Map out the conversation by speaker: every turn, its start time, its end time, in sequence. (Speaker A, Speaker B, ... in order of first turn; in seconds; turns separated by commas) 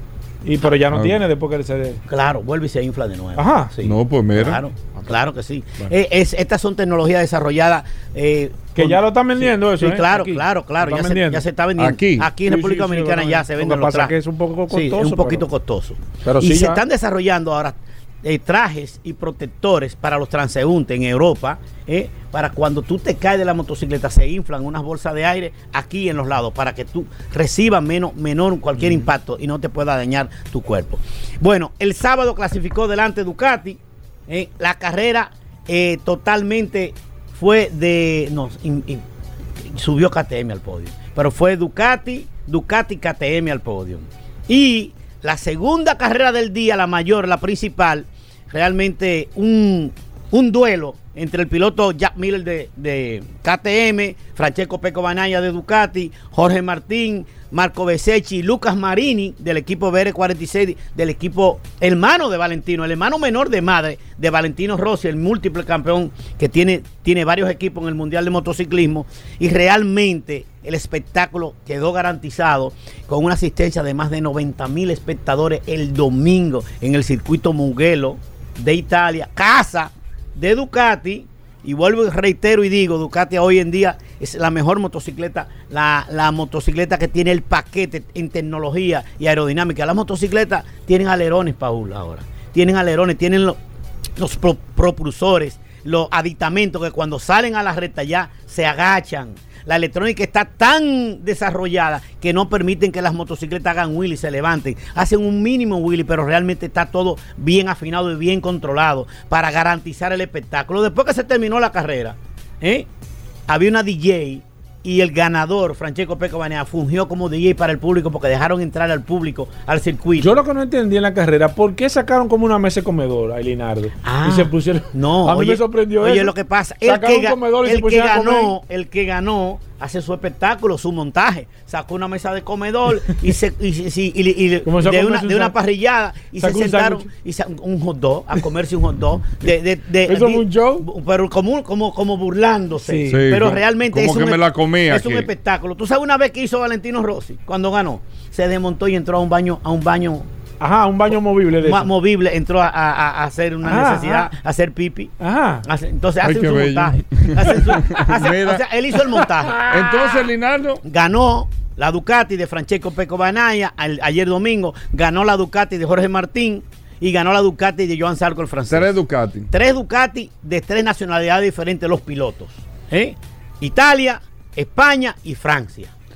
Speaker A: 0.4-2.0, Speaker B: 0.9-1.2, Speaker C: 2.1-14.2, Speaker A: 3.4-3.7, Speaker B: 3.8-4.6, Speaker A: 8.8-11.4, Speaker B: 11.8-12.3, Speaker A: 12.4-15.4, Speaker C: 14.7-39.0, Speaker A: 16.2-16.8, Speaker A: 28.8-29.0, Speaker C: 39.7-93.6, Speaker C: 94.2-112.9, Speaker C: 113.5-120.4, Speaker A: 120.2-128.5, Speaker C: 124.0-150.3, Speaker A: 134.7-135.6, Speaker A: 136.4-137.1, Speaker A: 140.1-140.9, Speaker A: 142.8-143.3, Speaker B: 143.1-145.3, Speaker A: 150.6-151.9, Speaker C: 151.6-160.2, Speaker A: 153.6-154.3, Speaker A: 155.2-155.7, Speaker B: 156.2-158.6, Speaker A: 157.4-158.3, Speaker A: 159.1-159.8, Speaker B: 159.7-160.8, Speaker C: 160.8-168.9, Speaker B: 168.7-169.5, Speaker C: 169.5-175.9